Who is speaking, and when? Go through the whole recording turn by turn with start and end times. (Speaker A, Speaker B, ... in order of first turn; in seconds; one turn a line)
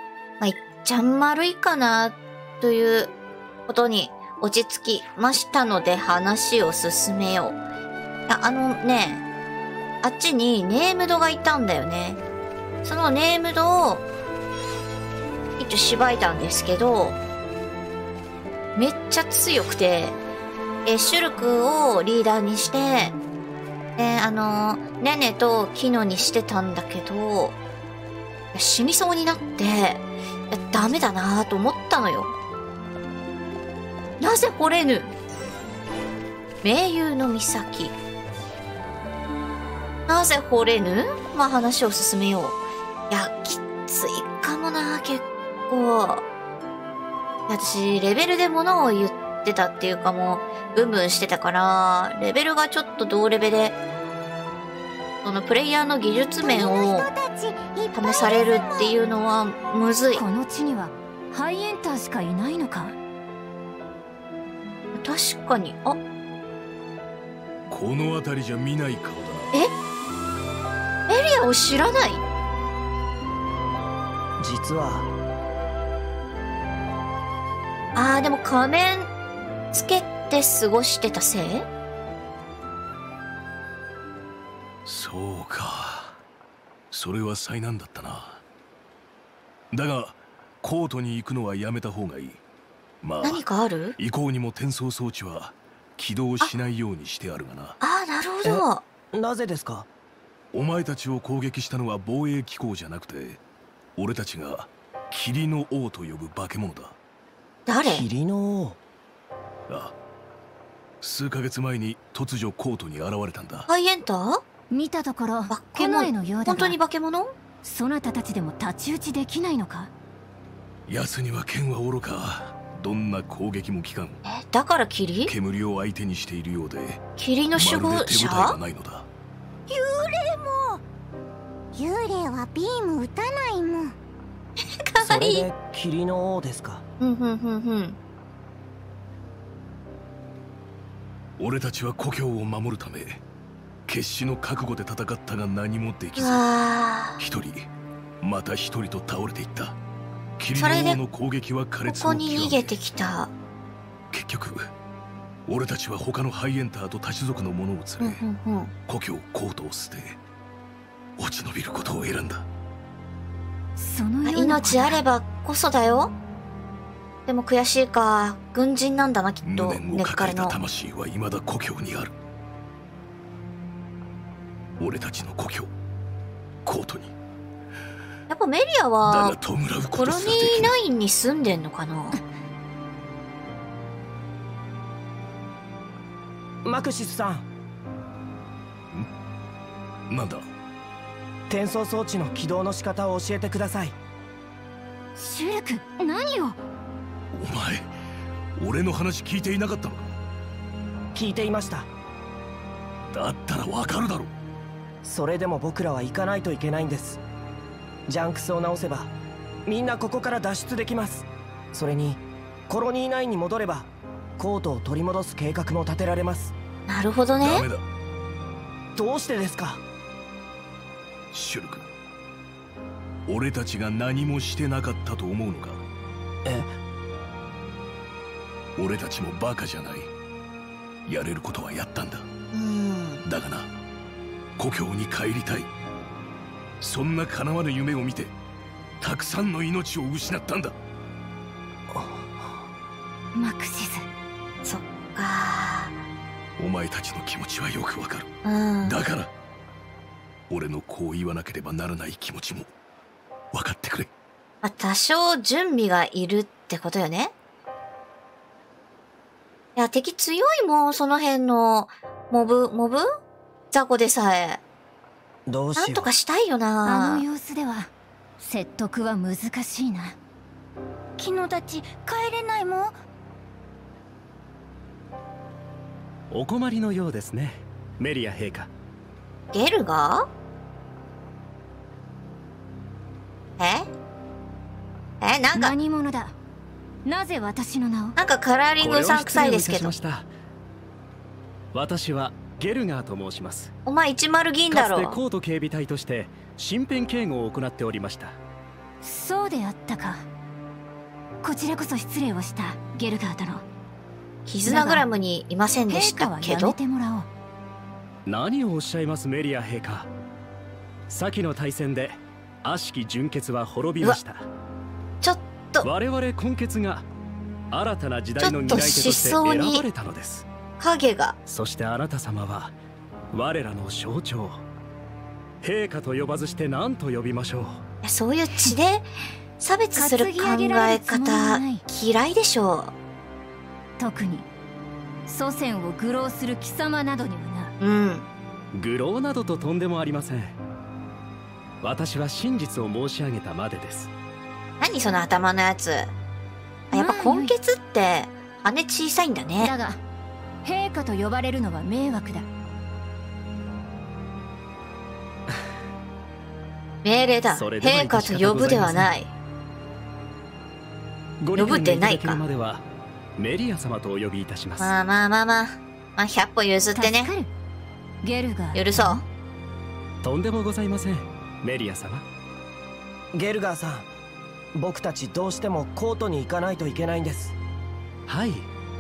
Speaker A: 0.4-3.1
Speaker A: 3.7-7.6
Speaker A: 8.3-9.2
Speaker A: 10.0-12.2
Speaker A: 12.8-14.1
Speaker A: 15.6-17.2
Speaker A: 18.8-20.2
Speaker A: 20.9-23.2
Speaker A: 24.0-27.6
Speaker A: 28.5-32.3
Speaker A: 34.2-35.1
Speaker A: 36.6-38.0
Speaker A: 40.1-46.2
Speaker A: 47.5-53.8
Speaker A: 55.2-57.1
Speaker B: 56.4-58.9
Speaker A: 57.9-60.2
Speaker C: 60.1-63.0
Speaker A: 65.0-66.0
Speaker D: 67.7-69.5
Speaker A: 71.1-72.2
Speaker E: 74.4-75.1
Speaker A: 78.0-79.1
Speaker A: 79.7-81.7
Speaker D: 84.8-86.2
Speaker D: 86.9-88.4
Speaker D: 89.7-92.4
Speaker D: 93.0-93.4
Speaker A: 93.2-94.0
Speaker D: 94.0-97.8
Speaker A: 97.8-98.8
Speaker E: 98.5-99.9
Speaker D: 100.5-103.4
Speaker D: 104.0-107.0
Speaker A: 107.7-108.1
Speaker E: 107.9-108.8
Speaker D: 109.7-110.0
Speaker D: 111.0-113.7
Speaker A: 113.7-114.4
Speaker C: 114.7-116.8
Speaker A: 115.5-117.3
Speaker C: 117.6-119.9
Speaker D: 120.9-124.2
Speaker A: 124.2-125.3
Speaker D: 125.3-127.0
Speaker A: 127.2-128.6
Speaker D: 127.5-129.1
Speaker B: 129.8-130.7
Speaker B: 131.8-133.9
Speaker A: 134.6-135.5
Speaker E: 135.0-136.8
Speaker A: 137.0-138.0
Speaker D: 141.4-143.2
Speaker D: 143.9-146.4
Speaker A: 146.2-147.2
Speaker D: 147.2-147.7
Speaker D: 148.2-149.8
Speaker D: 150.4-152.8
Speaker A: 150.5-151.0
Speaker A: 151.8-153.3
Speaker D: 154.1-154.7
Speaker D: 155.5-158.2
Speaker A: 158.0-158.7
Speaker D: 158.9-160.2
Speaker D: 161.2-162.5
Speaker C: 163.8-165.0
Speaker A: 164.2-166.1
Speaker A: 167.3-170.6
Speaker D: 169.4-172.1
Speaker D: 174.8-175.7
Speaker D: 176.7-177.1
Speaker A: 178.3-179.4
Speaker D: 179.1-180.8
Speaker A: 179.9-182.2
Speaker E: 186.6-187.5
Speaker D: 190.1-190.5
Speaker E: 191.5-194.0
Speaker C: 195.2-196.6
Speaker D: 197.3-197.9
Speaker D: 198.6-200.2
Speaker E: 201.1-201.9
Speaker D: 203.1-204.3
Speaker E: 205.0-207.2
Speaker E: 208.1-209.1
Speaker E: 209.7-216.5
Speaker A: 216.9-217.7
Speaker D: 217.4-217.8
Speaker E: 219.0-219.8
Speaker D: 221.3-221.9
Speaker D: 223.3-225.8
Speaker E: 226.4-226.7
Speaker D: 228.8-230.1
Speaker D: 231.1-232.3
Speaker A: 232.5-233.2
Speaker D: 233.3-233.7
Speaker D: 234.6-235.7
Speaker D: 236.8-238.3
Speaker D: 239.0-240.8
Speaker C: 243.3-244.1
Speaker A: 244.6-246.0
Speaker D: 246.6-248.3
Speaker A: 248.4-249.0
Speaker D: 248.8-249.3
Speaker D: 250.5-252.7
Speaker D: 253.5-254.1
Speaker A: 254.6-257.3
Speaker A: 259.8-263.1
Speaker A: 263.7-264.6
Speaker E: 265.5-266.1
Speaker A: 265.8-267.2
Speaker C: 266.9-270.2
Speaker B: 271.2-272.9
Speaker F: 276.3-278.7
Speaker A: 279.5-280.3
Speaker A: 283.6-283.9
Speaker A: 285.2-285.8
Speaker C: 285.5-286.3
Speaker C: 287.1-288.1
Speaker A: 288.2-289.9
Speaker F: 288.8-290.3
Speaker F: 291.7-293.7
Speaker A: 293.9-295.2
Speaker F: 294.7-298.4
Speaker C: 299.0-300.2
Speaker C: 301.4-303.6
Speaker A: 304.5-306.8
Speaker C: 304.7-305.1
Speaker C: 305.9-307.3
Speaker F: 308.3-310.1
Speaker F: 311.1-314.5
Speaker A: 315.2-315.9
Speaker F: 315.8-317.1
Speaker F: 317.7-320.5
Speaker A: 318.4-319.8
Speaker A: 320.8-321.4
Speaker F: 321.5-322.8
Speaker F: 323.3-324.6
Speaker F: 325.6-327.8
Speaker A: 328.0-332.9
Speaker C: 330.0-331.8
Speaker C: 334.0-334.5
Speaker C: 335.3-337.7
Speaker A: 337.8-338.3
Speaker F: 338.7-340.6
Speaker F: 341.8-344.1
Speaker A: 344.8-346.1
Speaker A: 346.9-349.7
Speaker C: 346.9-347.5
Speaker C: 349.6-350.0
Speaker C: 350.6-352.5
Speaker A: 357.0-359.3
Speaker F: 357.5-359.1
Speaker F: 361.4-362.8
Speaker A: 361.5-362.4
Speaker F: 363.4-364.9
Speaker A: 364.8-367.3
Speaker C: 366.9-367.5
Speaker C: 368.2-369.2
Speaker A: 368.7-369.2
Speaker F: 370.2-372.2
Speaker E: 373.3-374.1
Speaker E: 374.8-377.6
Speaker F: 378.3-378.7